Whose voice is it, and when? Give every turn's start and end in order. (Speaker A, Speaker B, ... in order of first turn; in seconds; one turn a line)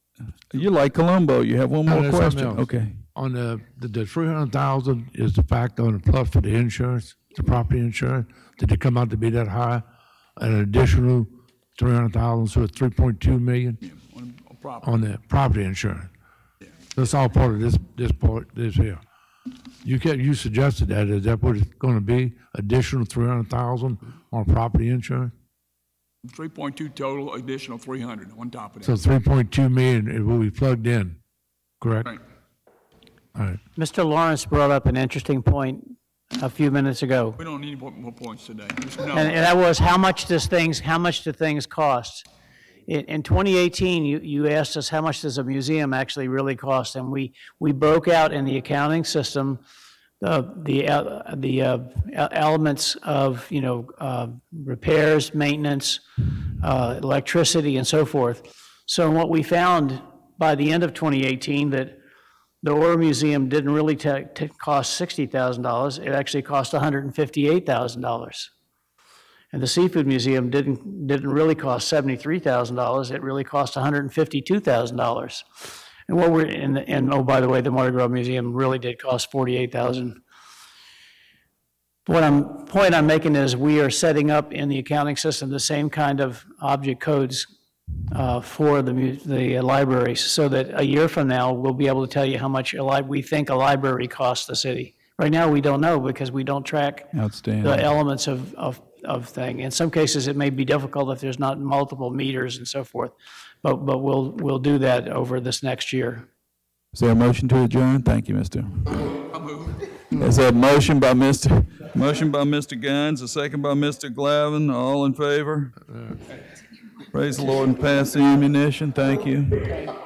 Speaker A: 0.5-3.0
Speaker B: 1.9-9.8
Speaker B: 10.4-13.8
Speaker C: 13.8-14.9
Speaker B: 14.8-16.1
Speaker B: 16.9-19.0
Speaker B: 19.8-25.3
Speaker C: 26.3-29.0
Speaker B: 28.8-31.2
Speaker B: 31.8-32.2
Speaker B: 33.4-33.6
Speaker D: 33.8-37.4
Speaker C: 37.4-39.4
Speaker D: 39.1-42.3
Speaker D: 42.9-49.6
Speaker D: 50.2-56.0
Speaker D: 56.6-62.0
Speaker D: 62.6-68.5
Speaker D: 69.5-75.5
Speaker D: 76.1-80.2
Speaker D: 82.1-87.5
Speaker D: 88.1-106.3
Speaker A: 97.1-97.9
Speaker A: 106.9-109.1
Speaker C: 109.3-109.9
Speaker A: 110.2-115.8
Speaker A: 117.1-119.8